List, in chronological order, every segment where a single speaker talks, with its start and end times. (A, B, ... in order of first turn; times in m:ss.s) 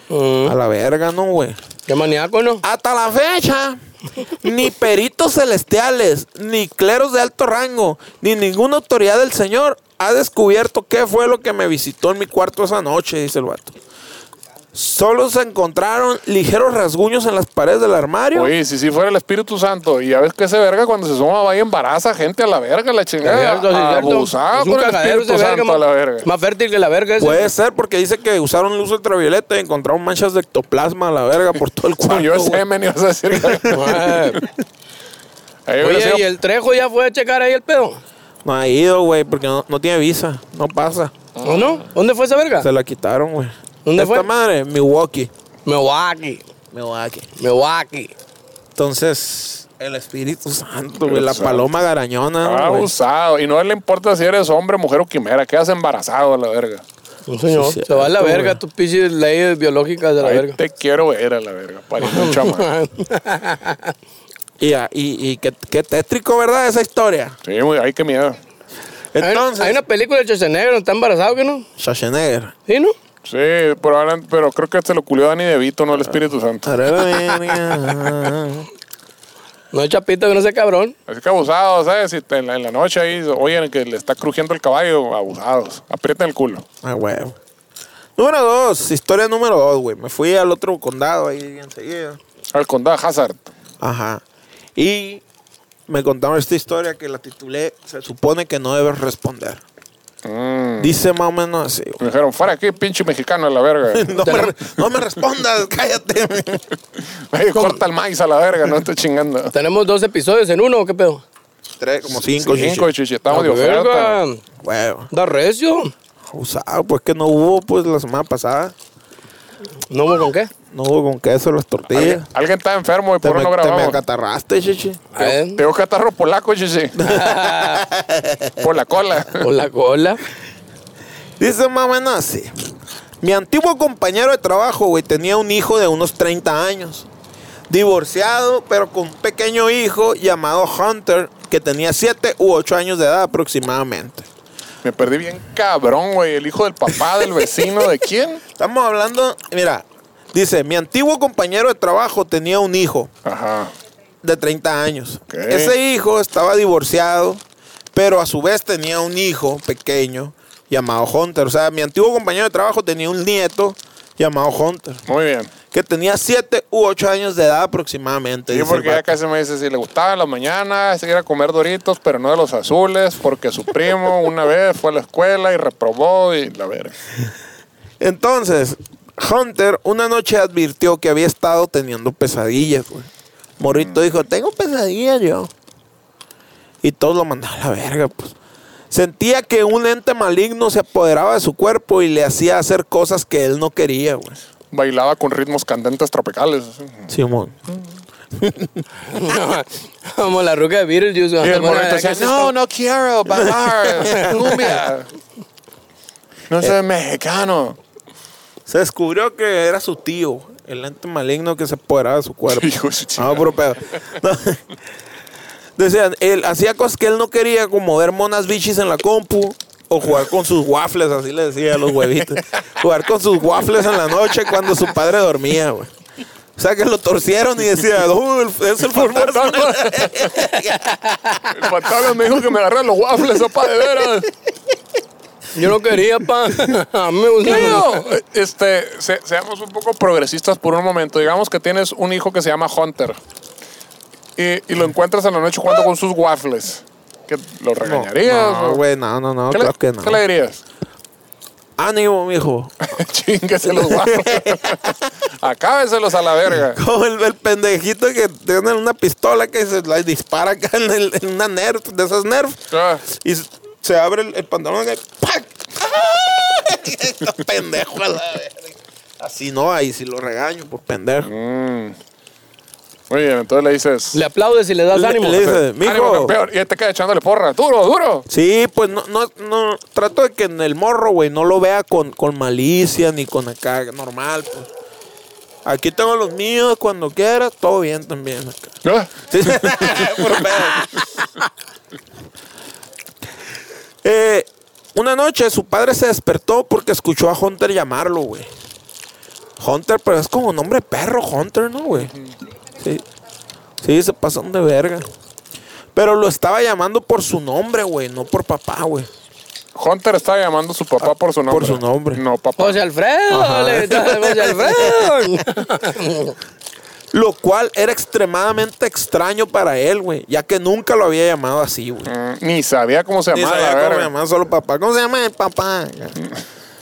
0:00.1-0:00.6 A
0:00.4-0:01.6 B
0:01.9-0:02.6 A
0:02.6-0:03.8 B
0:04.4-0:13.8 B
0:14.7-0:18.5 B
0:18.3-0:26.3 C
0:23.2-0:27.5 A
0:27.2-0:32.6 B
0:32.0-0:34.4 C
0:33.3-0:33.8 B
0:33.7-0:34.4 A
0:35.7-0:36.2 C
0:35.8-0:38.0 A
0:38.4-0:41.1 B
0:41.4-0:41.8 C
0:41.4-0:42.7 A
0:42.6-0:45.3 B
0:43.8-0:44.3 A
0:45.7-0:46.4 A
0:46.7-0:47.3 B
0:47.4-0:48.1 A
0:48.8-0:52.9 B
0:51.0-0:51.7 C
0:52.4-0:56.8 C
0:57.3-1:00.6 A
0:57.5-0:58.6 B
1:00.2-1:02.7 C
1:02.0-1:03.9 A
1:04.6-1:07.4 B
1:07.4-1:08.4 C
1:09.1-1:09.8 B
1:09.2-1:11.7 A
1:11.8-1:12.5 B
1:12.7-1:13.0 A
1:13.2-1:16.8 C
1:16.6-1:18.7 B
1:19.7-1:21.0 A
1:21.1-1:26.6 C
1:26.8-1:27.4 B
1:28.2-1:32.2 B
1:32.5-1:33.4 C
1:33.8-1:34.2 B
1:34.8-1:35.2 B
1:35.9-1:39.6 B
1:40.2-1:40.9 C
1:40.8-1:42.0 B
1:42.0-1:44.3 C
1:43.9-1:46.7 B
1:44.2-1:44.5 A
1:47.2-1:49.5 C
1:47.6-1:47.8 A
1:49.5-1:51.2 A
1:51.8-1:52.9 B
1:52.2-1:54.2 C
1:53.3-1:54.4 A
1:54.6-1:55.1 B
1:55.1-1:55.9 A
1:56.3-1:58.8 B
1:59.9-2:00.5 A
2:00.7-2:02.3 B
2:01.9-2:04.0 C
2:03.2-2:05.2 B
2:05.2-2:05.6 A
2:05.2-2:07.0 C
2:07.0-2:08.7 B
2:07.0-2:07.8 A
2:08.6-2:09.5 C
2:09.4-2:10.2 A
2:11.4-2:12.5 B
2:13.2-2:17.1 B
2:17.7-2:24.3 B
2:24.8-2:28.4 C
2:28.6-2:33.1 B
2:33.2-2:33.7 C
2:34.2-2:37.4 B
2:35.3-2:35.7 C
2:37.9-2:45.0 B
2:45.1-2:45.5 C
2:45.7-2:49.1 B
2:48.5-2:57.0 C
2:58.0-3:05.5 B
3:03.7-3:04.0 C
3:06.8-3:08.4 B
3:08.9-3:14.4 B
3:14.7-3:17.1 C
3:17.1-3:17.6 B
3:18.3-3:18.8 B
3:19.1-3:22.5 A
3:21.4-3:25.1 C
3:23.3-3:24.7 B
3:26.5-3:27.8 C
3:28.7-3:34.6 B
3:32.5-3:33.5 C
3:35.8-3:45.9 B
3:46.6-3:51.0 B
3:48.9-3:50.4 C
3:51.1-3:51.4 A
3:51.5-3:54.3 C
3:55.5-3:58.0 A
3:57.4-4:03.2 C
4:04.4-4:08.8 C
4:07.8-4:10.2 B
4:09.5-4:10.6 C
4:11.8-4:12.9 B
4:12.9-4:16.8 C
4:13.7-4:15.1 B
4:16.5-4:31.3 B
4:22.7-4:23.0 C
4:31.2-4:32.0 C
4:33.1-4:34.2 C
4:34.1-4:35.6 A
4:34.9-4:36.3 B
4:35.8-4:38.3 C
4:38.3-4:44.7 B
4:45.6-4:48.7 B
4:48.8-4:50.7 C
4:49.3-4:50.9 B
4:54.0-4:58.5 B
4:59.6-5:02.1 B
5:02.8-5:03.0 B
5:03.8-5:05.1 B
5:05.9-5:09.1 B
5:09.8-5:12.8 C
5:11.5-5:12.2 B
5:12.6-5:16.4 A
5:13.3-5:15.4 B
5:17.1-5:22.1 B
5:22.1-5:24.1 C
5:23.3-5:26.2 B